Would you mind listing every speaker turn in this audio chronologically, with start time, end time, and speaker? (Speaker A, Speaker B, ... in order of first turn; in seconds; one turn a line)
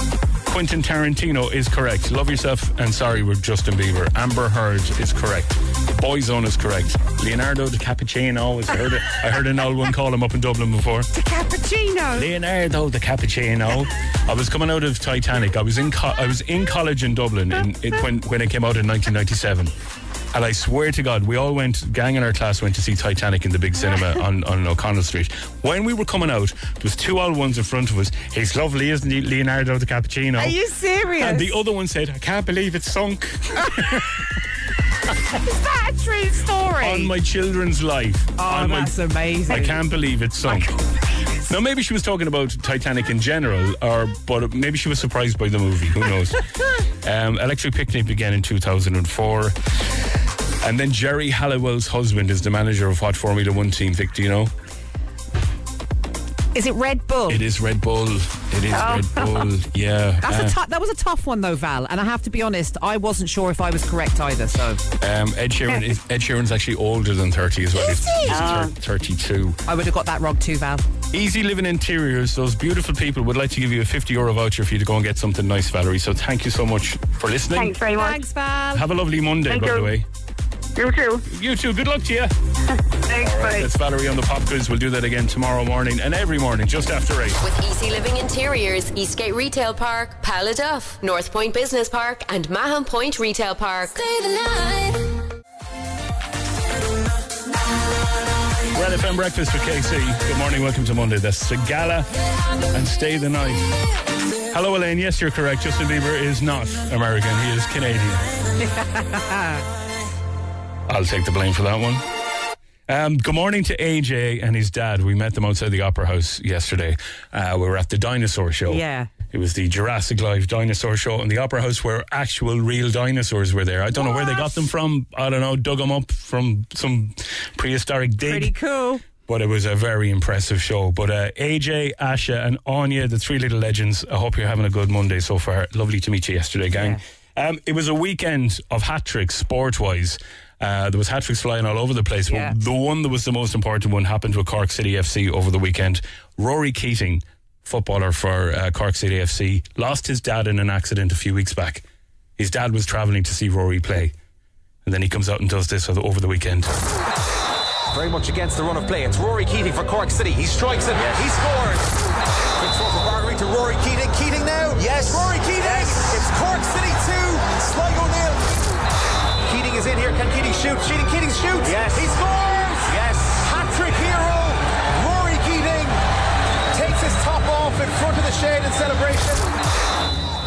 Speaker A: 0.5-11.1
Speaker B: 11.1-12.3
Speaker A: 12.2-19.7
Speaker A: 20.3-30.6
Speaker B: 30.4-31.6
Speaker A: 31.2-34.2
Speaker B: 35.3-37.1
Speaker A: 36.8-39.0
Speaker B: 38.4-39.8
Speaker A: 39.5-40.7
Speaker A: 41.5-46.5
Speaker A: 47.0-49.5
Speaker A: 50.6-54.5
Speaker B: 56.5-57.4
Speaker A: 57.3-60.5
Speaker C: 58.7-59.5
Speaker B: 60.2-64.8
Speaker A: 65.0-69.6
Speaker B: 67.8-68.5
Speaker C: 68.3-68.7
Speaker B: 69.7-70.9
Speaker A: 71.1-77.8
Speaker C: 77.5-78.2
Speaker B: 77.9-78.8
Speaker A: 78.7-80.0
Speaker C: 79.5-79.9
Speaker C: 80.8-81.2
Speaker A: 81.3-82.3
Speaker C: 82.7-83.7
Speaker A: 83.2-87.4
Speaker D: 87.4-94.6
Speaker A: 98.7-102.1
Speaker A: 102.7-103.7
Speaker A: 104.5-108.3
Speaker B: 108.6-109.6
Speaker A: 110.9-112.0
Speaker A: 112.9-128.6
Speaker B: 118.7-119.1
Speaker B: 124.0-124.5
Speaker B: 128.2-129.0
Speaker A: 129.2-151.8
Speaker B: 136.7-137.0
Speaker B: 142.2-142.5
Speaker A: 152.4-154.1
Speaker A: 154.8-156.7
Speaker E: 157.9-162.0
Speaker E: 162.6-168.7
Speaker E: 169.4-176.0
Speaker E: 176.7-179.5